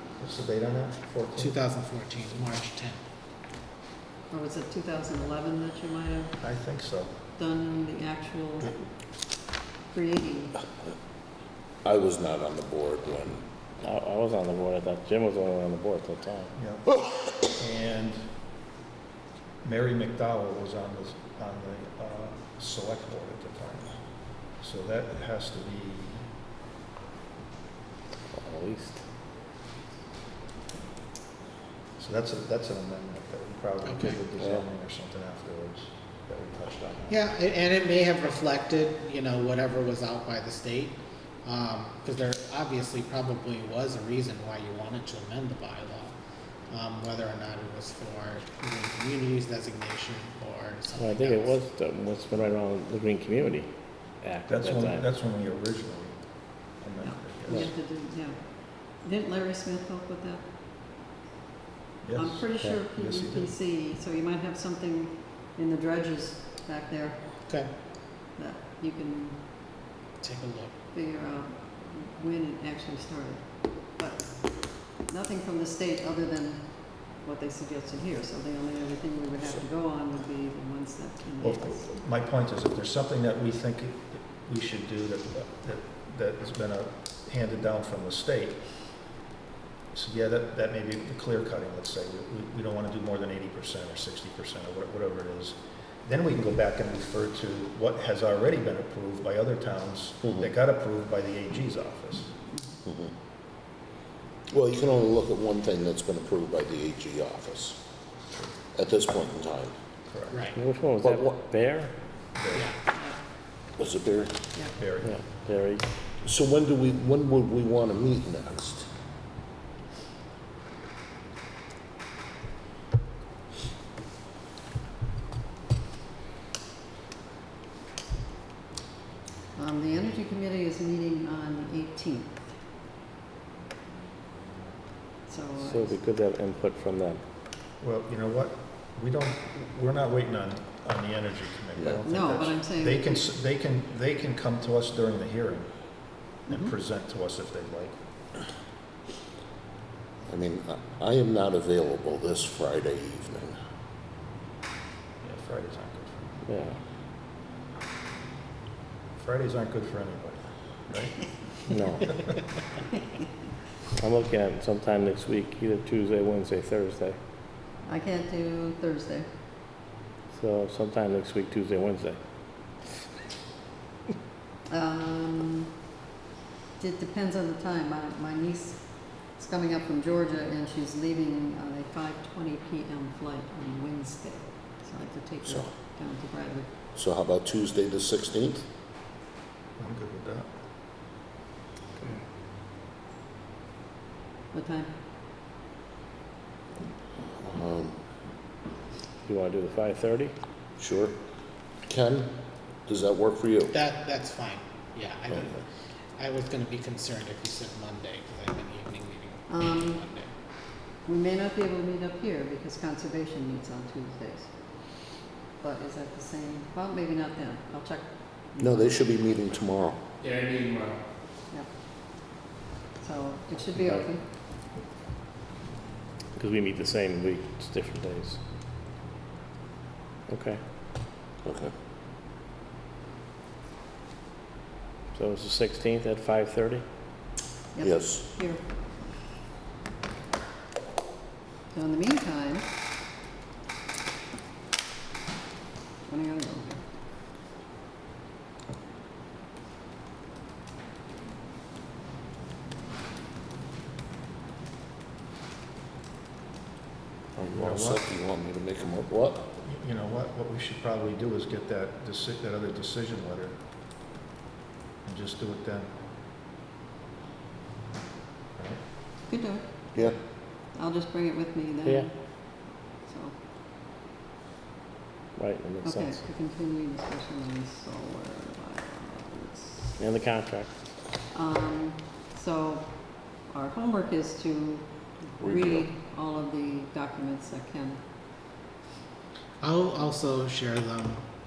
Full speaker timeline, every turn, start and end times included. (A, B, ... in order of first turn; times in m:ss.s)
0:00.2-0:01.6 A
0:01.4-0:03.0 B
0:04.3-0:06.4 C
0:06.4-0:07.1 A
0:07.4-0:09.3 C
0:09.9-0:10.6 C
0:11.8-0:13.4 D
0:13.8-0:16.5 E
0:16.6-0:18.3 A
0:19.6-0:26.3 A
0:28.3-0:29.0 E
0:32.0-0:37.2 A
0:33.8-0:34.2 B
0:34.4-0:34.6 E
0:37.1-0:46.2 B
0:46.7-0:51.6 B
0:51.0-0:53.7 E
0:54.2-0:55.0 E
0:54.5-0:57.7 A
0:57.0-1:00.5 C
1:02.0-1:03.5 A
1:02.2-1:07.8 C
1:07.4-1:07.7 B
1:08.3-1:09.8 C
1:10.2-1:10.7 B
1:10.9-1:21.8 C
1:21.4-1:28.8 A
1:29.9-1:42.3 A
1:42.9-1:43.1 D
1:44.5-1:47.8 D
1:48.7-1:49.7 D
1:50.1-1:50.4 A
1:50.3-1:50.6 B
1:50.6-1:51.9 E
1:51.0-1:51.4 D
1:52.3-1:52.7 A
1:52.5-1:52.8 B
1:53.8-1:54.4 D
1:54.7-1:55.2 A
1:55.0-1:55.8 E
1:56.2-1:58.9 D
2:09.6-2:12.4 C
2:15.3-2:16.0 C
2:15.6-2:17.2 E
2:17.8-2:25.7 A
2:22.0-2:23.3 C
2:26.3-2:28.0 A
2:30.3-2:33.6 D
2:35.2-2:36.3 A
2:36.5-2:36.8 E
2:39.2-2:41.3 A
2:41.7-2:42.2 E
2:44.0-2:47.2 E
2:47.9-2:49.3 C
2:50.3-2:52.2 E
2:54.7-2:55.7 C
2:56.8-3:06.7 C
3:05.4-3:05.7 D
3:06.9-3:08.6 D
3:09.8-3:10.5 A
3:14.5-3:14.9 C
3:17.4-3:18.0 D
3:19.2-3:20.3 E
3:20.8-3:21.2 D
3:21.9-3:22.3 D
3:22.9-3:23.7 D
3:23.7-3:25.6 B
3:26.2-3:30.3 B
3:29.5-3:30.0 C
3:30.8-3:34.9 C
3:35.6-3:38.9 C
3:38.6-3:40.0 D
3:40.2-3:40.9 B
3:43.0-3:44.2 C
3:43.7-3:44.0 E
3:46.4-3:48.4 E
3:50.3-3:50.6 E
3:51.4-3:51.7 D
3:55.1-3:56.8 E
3:57.8-3:58.6 C
3:57.8-3:58.3 D
4:01.7-4:02.7 C
4:06.1-4:06.8 C
4:17.4-4:19.5 D
4:17.5-4:18.0 A
4:19.6-4:23.6 A
4:25.0-4:25.9 A
4:29.3-4:29.7 C
4:30.7-4:33.3 C
4:35.4-4:36.2 E
4:35.8-4:39.9 C
4:40.0-4:40.7 E
4:41.3-4:48.0 C
4:45.4-4:45.9 D
4:49.6-4:51.2 B